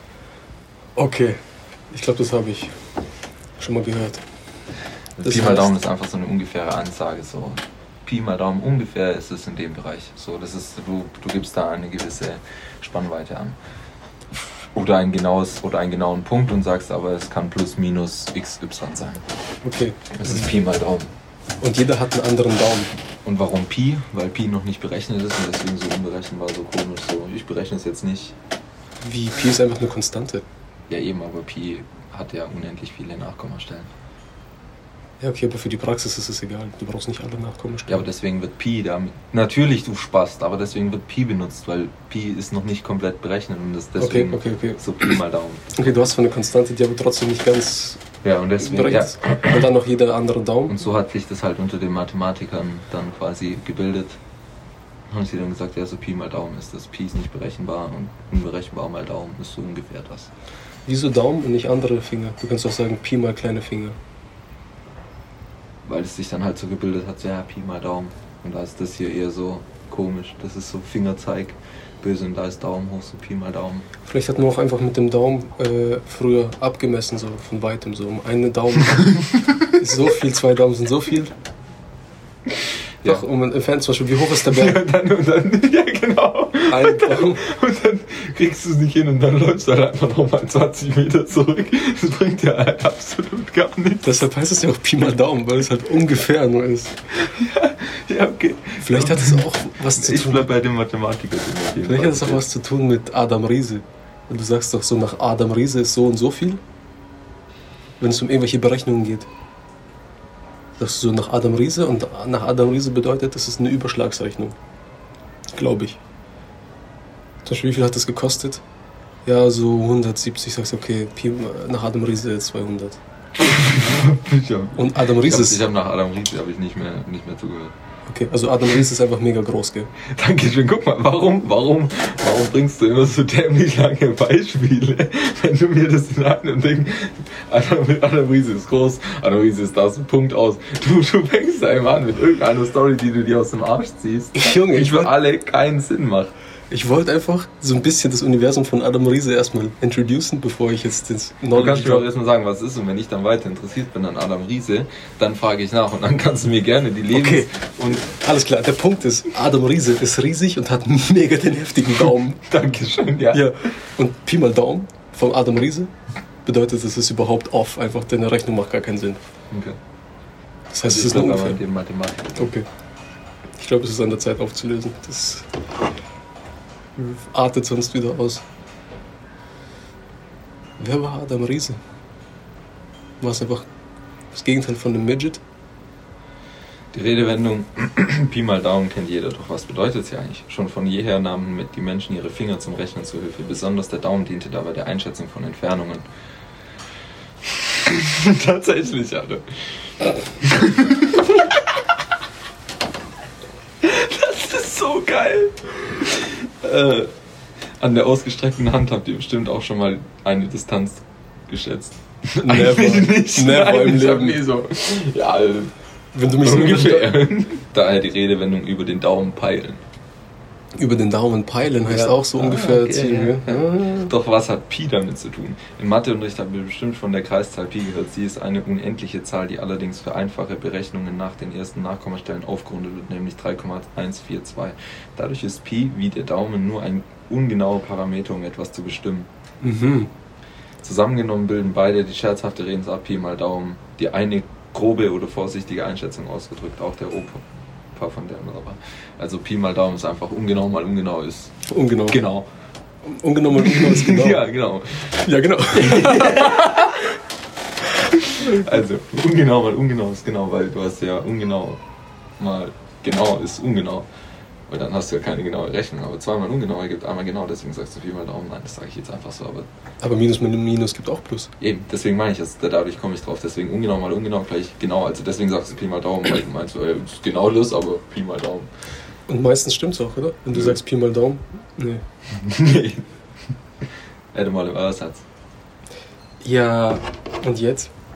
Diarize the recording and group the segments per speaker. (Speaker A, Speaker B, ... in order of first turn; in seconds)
Speaker A: 1.0-1.4, 1.9-2.8, 3.6-4.2, 5.2-5.7, 19.6-20.5, 21.6-22.9, 29.0-30.4, 35.2-38.0, 44.0-45.1, 45.8-48.0, 48.6-50.8, 60.9-64.0, 74.1-79.2, 79.7-81.3, 83.0-84.8, 86.7-87.4, 94.0-97.0, 98.8-100.5, 101.8-106.6, 108.0-109.3, 110.8-114.6, 115.5-116.0, 117.5-118.6, 119.2-123.0, 124.8-125.6, 128.1-129.9, 144.3-145.1, 146.7-152.1, 157.1-157.5, 158.0-162.4, 163.3-165.9, 166.4-169.2, 170.7-171.6, 172.4-172.7, 173.6-175.5, 177.0-178.4, 180.8-181.8, 183.2-183.7, 184.3-185.4, 212.4-214.4, 216.1-217.2, 220.8-224.1, 239.6-240.1, 251.7-252.2, 253.1-254.4, 255.2-256.9, 270.0-271.5, 279.3-282.0, 286.4-287.9
Speaker B: 5.2-13.6, 14.7-19.2, 20.2-21.1, 23.2-28.4, 30.9-33.9, 37.9-46.1, 48.2-49.6, 50.7-54.2, 55.1-60.3, 65.8-73.9, 79.2-79.7, 84.4-94.3, 97.2-102.5, 123.4-127.8, 130.0-146.3, 151.5-158.2, 162.4-163.7, 169.5-169.8, 170.8-172.5, 186.9-196.1, 197.4-201.7, 203.8-207.1, 207.8-215.7, 216.3-219.8, 221.9-239.3, 240.8-247.4, 247.9-251.5, 252.1-252.5, 253.6-257.2, 258.0-261.8, 262.4-264.1, 264.7-269.7, 271.6-278.7, 280.5-280.8, 282.3-283.1, 284.3-285.2